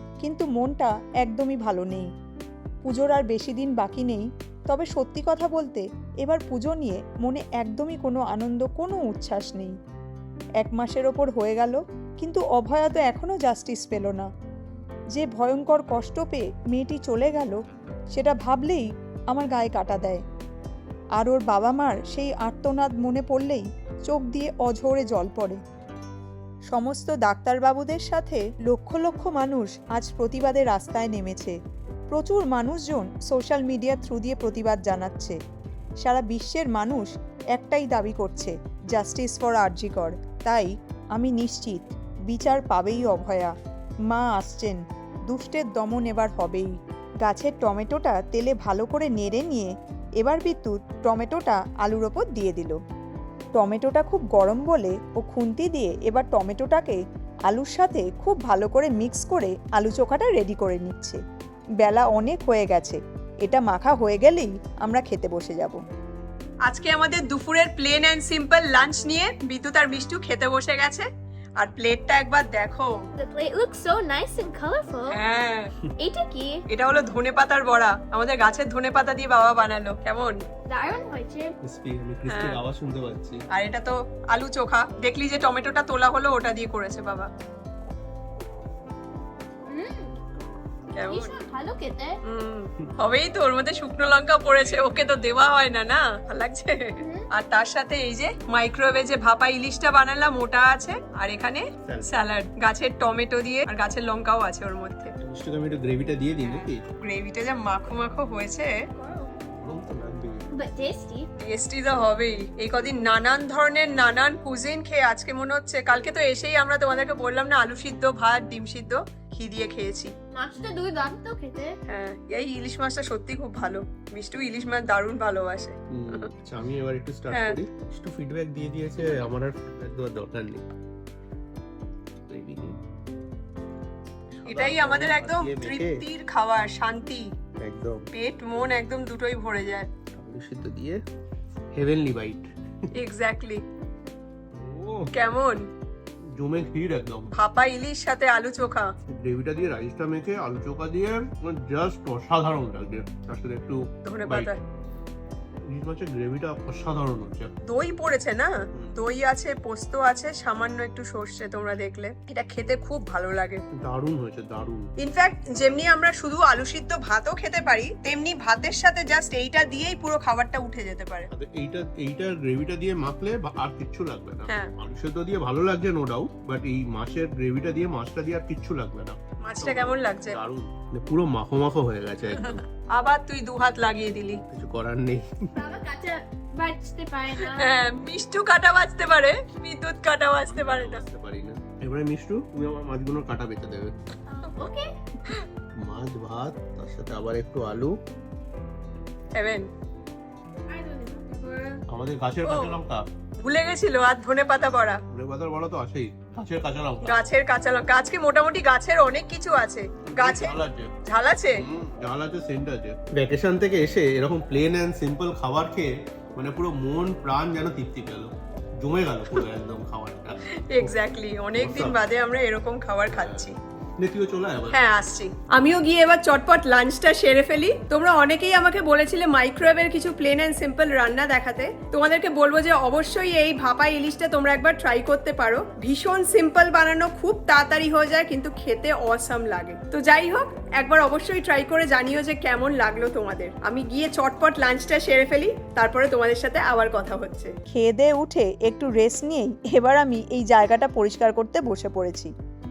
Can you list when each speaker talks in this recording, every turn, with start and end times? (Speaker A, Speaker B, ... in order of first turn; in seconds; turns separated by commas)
Speaker A: 0.2-2.1, Speaker A: 2.9-9.7, Speaker A: 10.6-14.3, Speaker A: 15.1-17.6, Speaker A: 18.1-20.2, Speaker A: 21.2-25.6, Speaker A: 26.7-31.6, Speaker A: 32.1-35.4, Speaker A: 36.0-43.5, Speaker A: 44.1-44.8, Speaker A: 45.3-46.7, Speaker A: 47.2-52.8, Speaker A: 53.6-61.2, Speaker A: 61.8-65.8, Speaker B: 66.7-71.1, Speaker B: 71.6-73.0, Speaker C: 73.2-75.2, Speaker B: 75.1-75.7, Speaker C: 76.0-76.6, Speaker B: 76.7-80.4, Speaker C: 80.7-81.5, Speaker D: 81.6-83.4, Speaker B: 82.3-82.6, Speaker B: 83.5-87.3, Speaker C: 89.7-90.2, Speaker B: 91.0-91.4, Speaker C: 91.0-92.2, Speaker B: 92.2-105.1, Speaker D: 94.5-95.2, Speaker C: 97.0-97.3, Speaker D: 105.2-106.8, Speaker B: 106.4-108.7, Speaker C: 109.0-109.3, Speaker D: 109.6-110.4, Speaker C: 110.5-111.3, Speaker B: 111.4-120.1, Speaker C: 120.3-121.8, Speaker B: 121.9-126.3, Speaker D: 126.0-130.6, Speaker B: 127.3-127.6, Speaker D: 132.3-132.8, Speaker D: 134.3-136.0, Speaker B: 134.5-137.3, Speaker D: 137.6-138.0, Speaker B: 138.1-139.9, Speaker D: 140.2-141.0, Speaker D: 141.7-142.5, Speaker B: 142.9-143.6, Speaker D: 144.6-145.1, Speaker B: 145.1-145.7, Speaker D: 146.4-147.3, Speaker B: 147.3-148.9, Speaker D: 149.1-154.5, Speaker B: 154.1-154.6, Speaker D: 155.7-157.5, Speaker B: 157.7-163.6, Speaker D: 163.8-164.9, Speaker B: 165.0-171.3, Speaker D: 171.3-182.6, Speaker B: 174.5-174.7, Speaker B: 179.4-180.4, Speaker B: 182.3-184.4, Speaker D: 184.5-185.3, Speaker C: 185.6-187.8, Speaker B: 187.3-191.0, Speaker D: 190.5-193.9, Speaker C: 194.3-194.9, Speaker D: 195.8-197.9, Speaker B: 199.4-199.7, Speaker C: 200.7-201.8, Speaker D: 201.9-203.1, Speaker B: 202.4-202.8, Speaker B: 203.4-205.0, Speaker D: 205.1-207.2, Speaker B: 207.0-211.6, Speaker D: 210.1-210.9, Speaker D: 211.6-220.9, Speaker B: 220.5-223.6, Speaker D: 221.6-222.0, Speaker D: 223.1-224.8, Speaker B: 224.7-247.5, Speaker A: 247.7-252.3